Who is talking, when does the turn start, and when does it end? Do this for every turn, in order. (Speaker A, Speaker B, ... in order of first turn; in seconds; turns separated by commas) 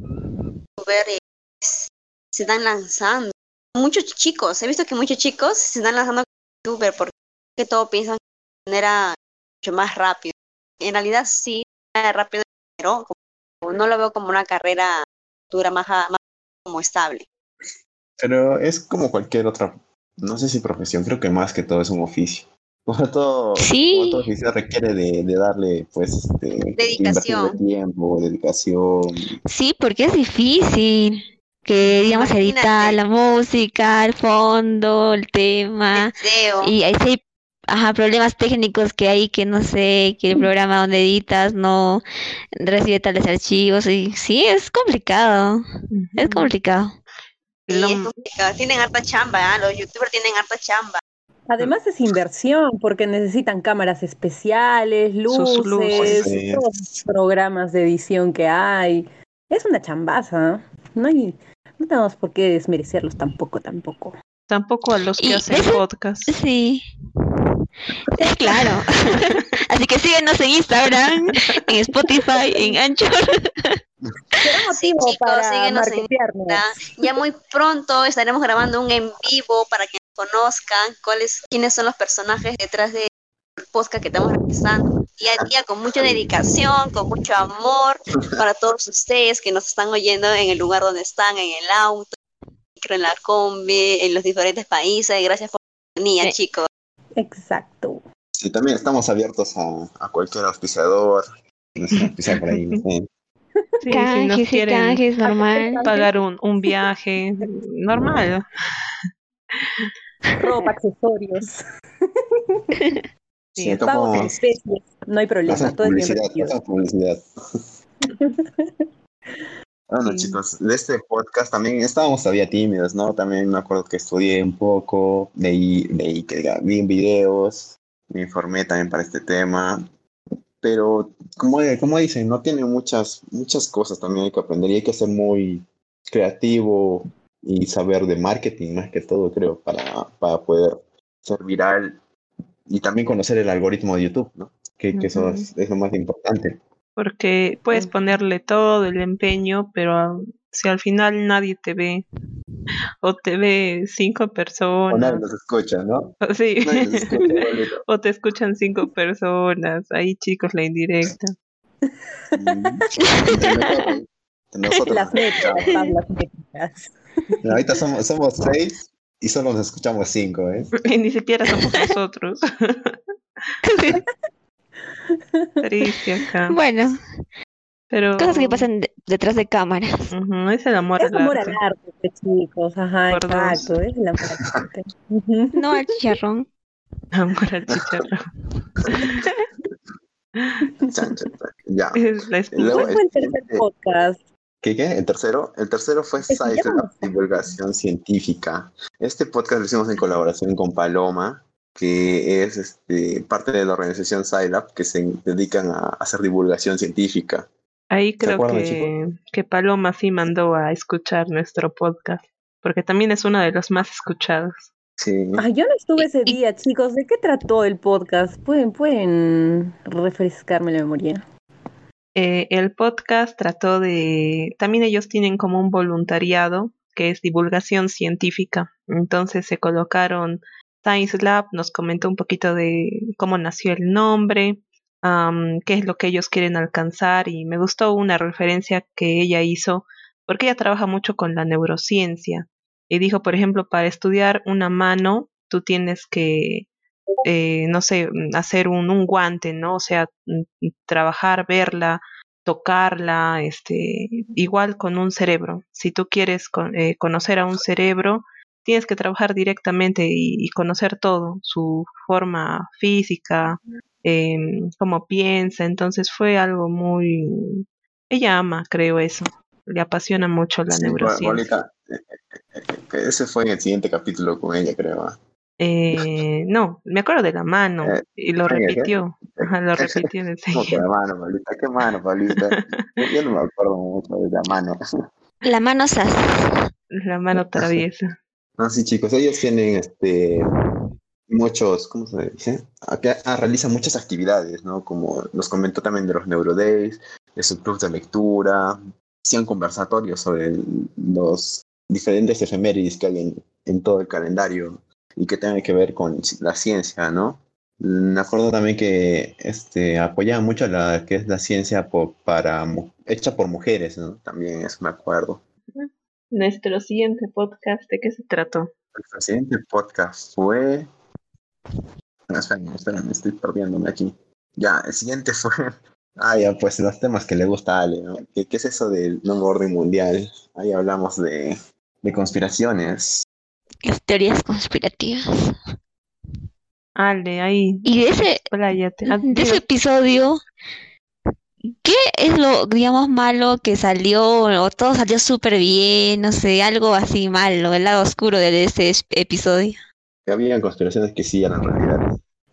Speaker A: 0.8-13.1, Speaker A: 13.6-17.3, Speaker B: 18.2-29.3, Speaker C: 23.6-24.2, Speaker A: 26.8-27.6, Speaker C: 29.5-42.0, Speaker A: 32.1-33.0, Speaker A: 35.9-36.7, Speaker C: 42.6-45.6, Speaker D: 45.9-46.5, Speaker C: 46.2-46.9, Speaker D: 47.7-48.1, Speaker A: 47.7-51.0, Speaker E: 51.5-64.2, Speaker D: 55.3-56.3, Speaker B: 55.9-57.0, Speaker D: 64.5-66.3, Speaker C: 65.2-66.8, Speaker C: 68.1-73.7, Speaker E: 74.4-76.6, Speaker A: 74.7-83.1, Speaker A: 83.7-92.2, Speaker B: 86.0-86.3, Speaker A: 92.8-96.7, Speaker E: 97.2-98.0, Speaker B: 98.4-103.1, Speaker D: 102.3-102.8, Speaker D: 103.8-108.4, Speaker C: 103.9-105.8, Speaker E: 105.6-106.1, Speaker E: 110.4-111.6, Speaker E: 112.3-112.6, Speaker D: 113.6-113.8, Speaker B: 113.6-114.4, Speaker E: 113.8-116.5, Speaker B: 115.5-117.6, Speaker E: 118.0-118.8, Speaker B: 119.9-129.8, Speaker D: 120.0-120.4, Speaker B: 130.6-142.0, Speaker B: 142.7-146.6, Speaker D: 144.9-145.5, Speaker D: 147.0-152.1, Speaker D: 153.0-155.2, Speaker B: 154.9-157.8, Speaker D: 156.2-161.3, Speaker E: 162.3-162.8, Speaker B: 162.3-165.8, Speaker C: 163.0-163.7, Speaker E: 164.8-166.9, Speaker B: 167.4-170.7, Speaker D: 170.8-173.0, Speaker C: 173.6-174.0, Speaker E: 175.4-175.9, Speaker D: 175.6-176.6, Speaker C: 176.5-176.9, Speaker D: 177.9-178.7, Speaker C: 178.2-180.1, Speaker D: 180.1-181.6, Speaker E: 181.0-185.7, Speaker D: 183.1-183.8, Speaker C: 185.5-186.5, Speaker D: 187.1-188.2, Speaker D: 188.9-189.2, Speaker B: 188.9-189.2, Speaker D: 190.4-190.7, Speaker B: 190.9-193.6, Speaker D: 191.9-192.9, Speaker E: 192.7-194.2, Speaker B: 194.6-207.5, Speaker E: 196.3-197.1, Speaker D: 207.9-214.7, Speaker B: 208.2-208.9, Speaker B: 215.0-215.4, Speaker E: 215.4-221.2, Speaker C: 216.0-216.3, Speaker D: 222.2-246.7, Speaker D: 247.2-271.5, Speaker B: 270.7-275.2, Speaker D: 275.6-280.8, Speaker B: 277.8-279.9, Speaker B: 280.5-284.8, Speaker D: 282.5-282.8, Speaker C: 285.4-286.5, Speaker D: 286.9-288.1, Speaker B: 288.6-290.5, Speaker B: 291.3-315.4, Speaker D: 315.7-318.7, Speaker B: 318.9-320.9, Speaker B: 322.3-333.2, Speaker C: 333.8-335.5, Speaker D: 336.9-339.6, Speaker C: 337.9-338.4, Speaker C: 339.1-340.4, Speaker C: 341.8-349.8, Speaker B: 350.2-352.1